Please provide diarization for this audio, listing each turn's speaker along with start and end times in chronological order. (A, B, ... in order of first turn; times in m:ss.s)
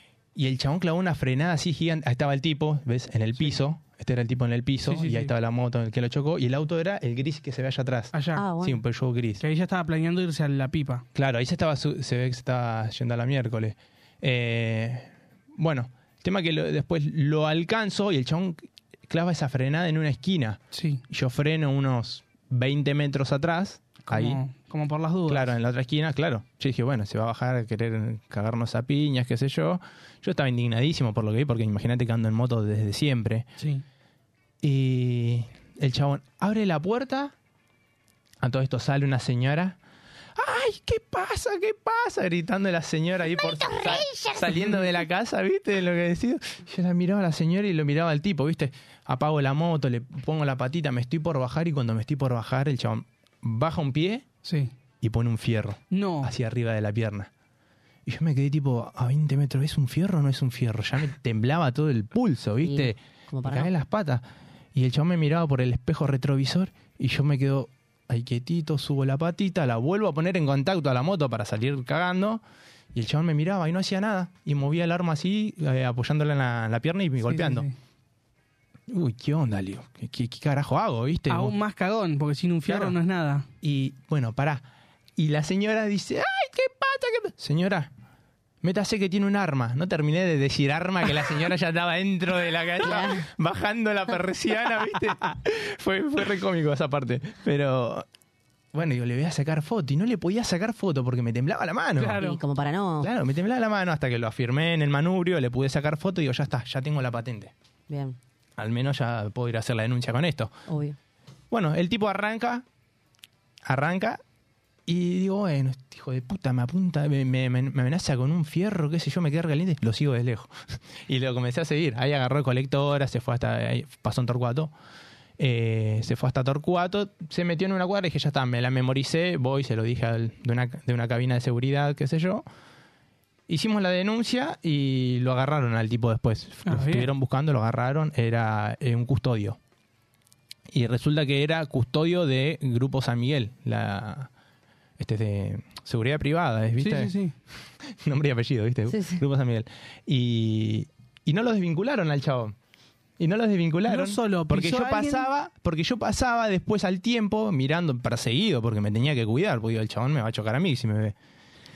0:00.4-0:09.4 A
0:04.9-0:05.3 B
0:08.1-0:08.4 B
0:08.4-0:08.8 C
0:09.4-0:11.0 B
0:11.2-0:24.4 A
0:20.7-0:21.0 B
0:24.0-0:25.5 B
0:25.3-0:33.5 A
0:33.6-0:33.8 B
0:34.6-0:37.3 A
0:38.4-0:39.8 A
0:40.4-0:54.3 A
0:43.4-0:44.5 C
0:54.4-0:54.7 B
0:55.0-0:57.3 A
0:55.9-0:56.3 B
0:58.1-1:12.4 A
1:02.6-1:03.7 C
1:12.9-1:17.7 A
1:17.2-1:17.7 B
1:18.9-1:21.6 A
1:21.3-1:23.5 B
1:22.7-1:23.0 A
1:23.6-1:24.7 A
1:25.2-1:27.9 A
1:28.6-1:38.1 A
1:32.8-1:33.2 C
1:38.7-1:42.2 A
1:42.0-1:42.4 B
1:42.2-1:43.1 C
1:43.0-1:47.5 A
1:47.9-1:48.2 C
1:48.6-1:50.5 A
1:50.7-1:51.0 C
1:51.5-1:52.6 A
1:53.6-1:54.2 A
1:54.9-2:04.7 A
2:05.4-2:12.5 A
2:13.5-2:19.6 A
2:16.6-2:17.1 B
2:20.7-2:24.3 A
2:25.0-2:27.1 A
2:26.8-2:27.3 B
2:27.9-2:32.6 A
2:28.9-2:29.2 C
2:33.2-2:41.2 A
2:33.9-2:35.3 B